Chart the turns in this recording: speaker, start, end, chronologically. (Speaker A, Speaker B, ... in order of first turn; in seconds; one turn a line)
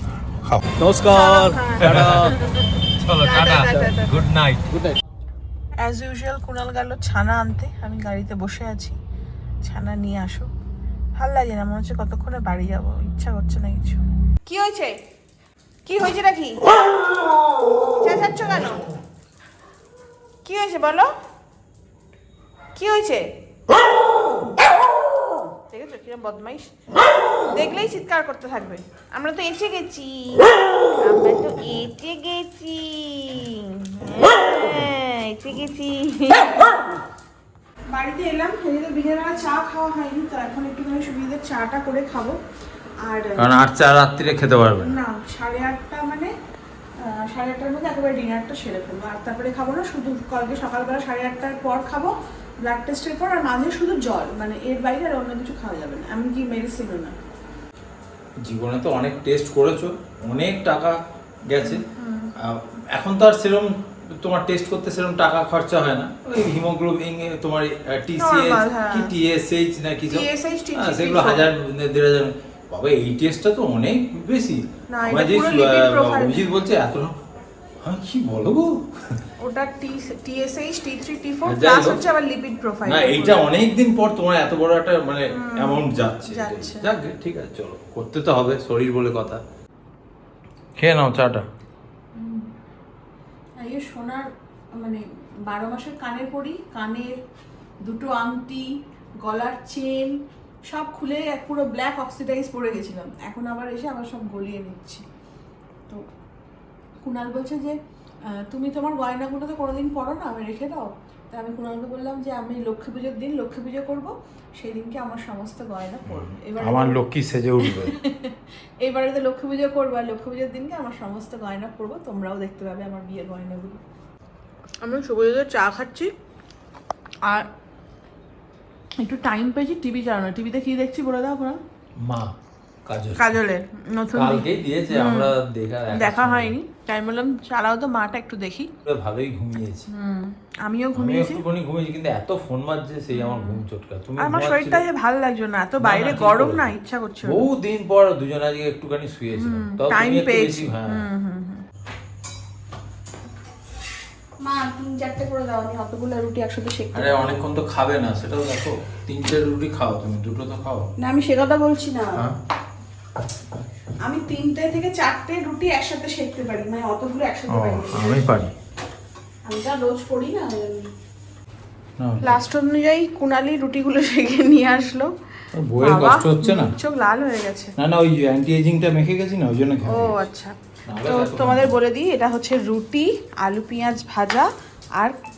Speaker A: 0.4-5.0
Speaker B: 1.1-2.6
Speaker B: 3.2-4.2
Speaker B: 5.8-8.9
Speaker B: 9.6-10.5
Speaker B: 11.2-15.0
Speaker B: 15.8-16.7
Speaker B: 18.0-18.8
Speaker B: 20.4-21.1
Speaker B: 22.7-23.2
Speaker B: 25.7-26.7
Speaker B: 27.5-36.8
Speaker B: 37.9-42.4
Speaker B: 43.0-43.5
Speaker A: 43.4-44.9
Speaker B: 44.8-46.3
Speaker B: 47.0-57.1
Speaker A: 58.4-61.0
Speaker A: 61.5-61.9
Speaker B: 61.6-62.3
Speaker A: 62.4-77.1
Speaker B: 68.2-69.1
Speaker B: 70.1-71.5
Speaker B: 74.9-76.5
Speaker A: 77.8-79.2
Speaker B: 79.4-83.5
Speaker A: 81.4-82.0
Speaker A: 82.8-89.4
Speaker B: 85.3-86.9
Speaker A: 90.8-91.4
Speaker B: 92.2-92.5
Speaker B: 93.6-94.3
Speaker B: 94.8-97.1
Speaker B: 97.8-98.7
Speaker B: 99.2-100.2
Speaker B: 100.7-105.0
Speaker B: 107.0-107.8
Speaker B: 108.3-117.0
Speaker A: 116.1-118.0
Speaker B: 117.6-123.8
Speaker B: 124.8-126.1
Speaker B: 127.2-127.5
Speaker B: 129.0-131.6
Speaker A: 132.0-132.3
Speaker A: 132.9-133.4
Speaker B: 133.2-135.3
Speaker A: 134.1-136.6
Speaker B: 135.9-138.7
Speaker A: 138.8-139.9
Speaker B: 139.9-141.4
Speaker A: 140.9-144.8
Speaker B: 143.1-143.6
Speaker B: 144.2-147.4
Speaker A: 145.8-146.7
Speaker A: 147.2-151.0
Speaker B: 149.3-151.6
Speaker B: 154.4-157.4
Speaker A: 156.9-160.9
Speaker B: 161.0-162.2
Speaker B: 164.0-168.3
Speaker A: 167.5-168.5
Speaker B: 169.4-170.9
Speaker A: 172.0-172.4
Speaker B: 172.2-175.1
Speaker A: 175.5-176.7
Speaker B: 175.8-177.7
Speaker A: 177.8-180.2
Speaker B: 179.9-185.1
Speaker A: 180.9-181.7